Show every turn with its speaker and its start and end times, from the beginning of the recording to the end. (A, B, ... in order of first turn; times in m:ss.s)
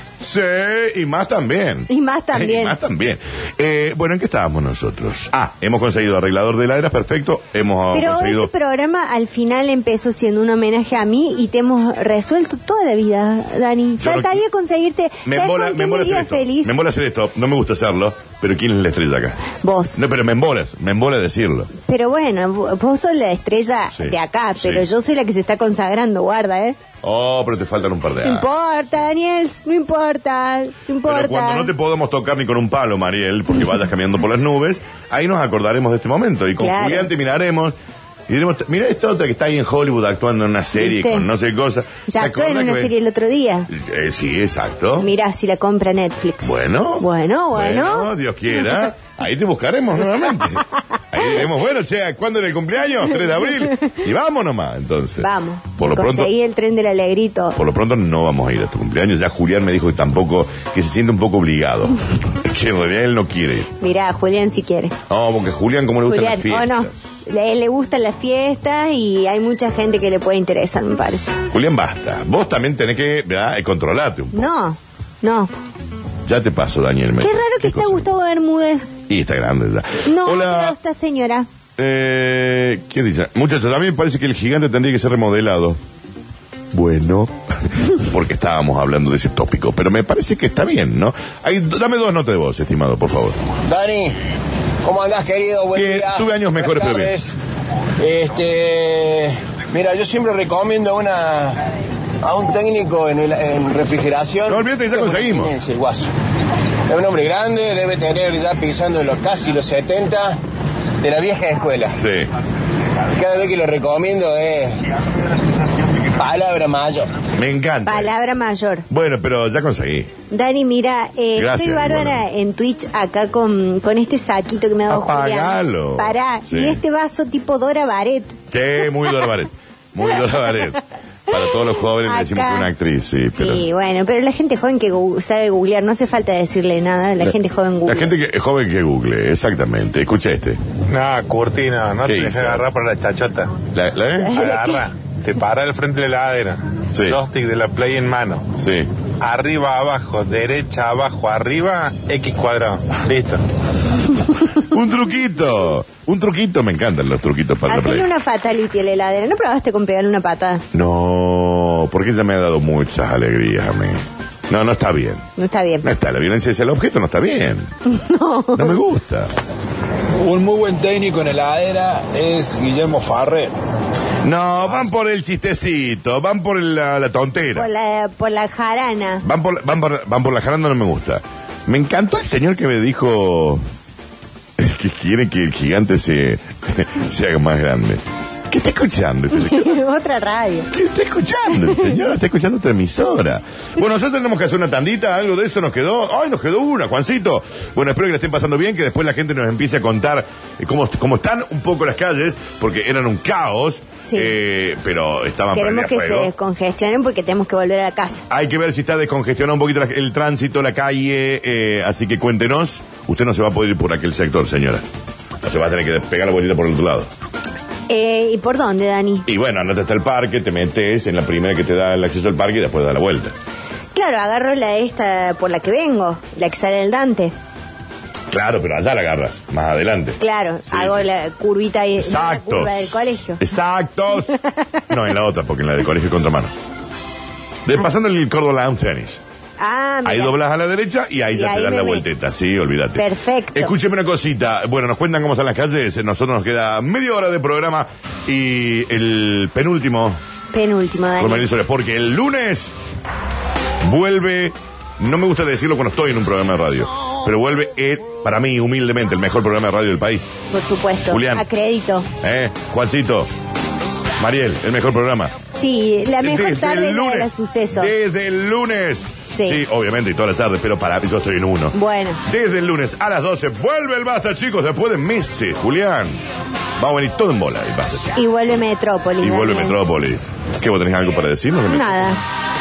0:00.2-0:08.5 A
0:01.9-0:02.7 B
0:07.9-0:16.7 B
0:14.0-0:14.4 A
0:15.2-0:19.4 A
0:19.6-0:20.0 B
0:20.0-0:21.7 A
0:21.8-0:26.8 B
0:24.0-0:24.8 A
0:27.0-0:28.5 A
0:28.2-0:31.7 B
0:31.0-0:37.8 A
0:36.6-0:37.1 B
0:38.3-0:42.9 A
0:40.8-0:41.2 B
0:42.1-0:43.7 B
0:43.7-0:45.1 A
0:45.0-0:48.1 B
0:46.4-0:56.3 A
0:55.2-0:57.6 B
0:57.6-1:03.7 A
1:03.8-1:05.0 B
1:05.1-1:07.0 A
1:06.1-1:11.4 B
1:11.5-1:14.5 A
1:14.3-1:15.5 B
1:16.2-1:18.1 A
1:17.2-1:19.0 B
1:19.1-1:20.7 A
1:20.0-1:21.5 B
1:21.8-1:25.8 A
1:26.7-1:33.4 A
1:33.7-1:34.2 C
1:34.8-1:36.1 C
1:35.7-1:37.2 A
1:36.7-1:37.3 C
1:38.0-1:41.6 C
1:42.2-1:44.6 C
1:44.4-1:45.5 A
1:45.2-1:46.1 C
1:46.9-1:50.4 C
1:51.0-1:51.9 C
1:52.0-1:52.3 A
1:53.2-1:54.8 C
1:56.2-1:57.1 C
1:57.3-1:58.1 A
1:57.8-1:58.8 B
1:58.9-2:00.1 A
2:00.3-2:08.4 B
2:01.3-2:02.2 A
2:04.9-2:06.8 A
2:08.5-2:13.6 A
2:12.0-2:12.7 B
2:13.3-2:18.1 B
2:17.2-2:20.6 A
2:20.9-2:23.6 D
2:22.0-2:22.6 A
2:23.7-2:24.5 A
2:24.2-2:24.8 B
2:24.4-2:28.4 D
2:26.9-2:27.2 A
2:28.6-2:28.9 A
2:29.2-2:33.4 D
2:34.6-2:38.1 A
2:37.7-2:40.6 B
2:40.7-2:45.3 A
2:45.4-2:45.9 B
2:45.8-2:47.7 A
2:47.9-2:48.8 B
2:48.5-2:49.3 A
2:50.2-2:53.5 E
2:54.2-2:57.7 A
2:57.5-2:59.2 B
2:59.2-3:03.6 A
3:04.6-3:09.8 A
3:09.3-3:10.7 B
3:10.7-3:26.3 A
3:24.0-3:24.3 B
3:25.5-3:28.2 B
3:28.3-3:34.8 A
3:35.4-3:37.1 A
3:37.9-3:39.2 B
3:39.2-3:43.3 A
3:43.9-3:47.3 B
3:48.3-3:51.1 A
3:50.2-3:53.4 B
3:52.0-3:54.3 A
3:54.9-3:56.5 A
3:57.6-3:59.2 A
3:59.6-4:00.3 B
4:00.0-4:10.2 A
4:01.3-4:02.0 B
4:03.0-4:03.7 B
4:10.5-4:11.5 B
4:11.2-4:12.7 A
4:13.8-4:20.3 A
4:20.5-4:22.1 B
4:21.1-4:21.4 A
4:22.2-4:23.3 A
4:24.2-4:25.3 A
4:25.6-4:27.9 B
4:26.2-4:36.2 A
4:29.3-4:29.6 B
4:31.7-4:32.2 B
4:36.8-4:38.6 A
4:38.2-4:39.8 B
4:39.2-4:42.2 A
4:41.7-4:42.2 B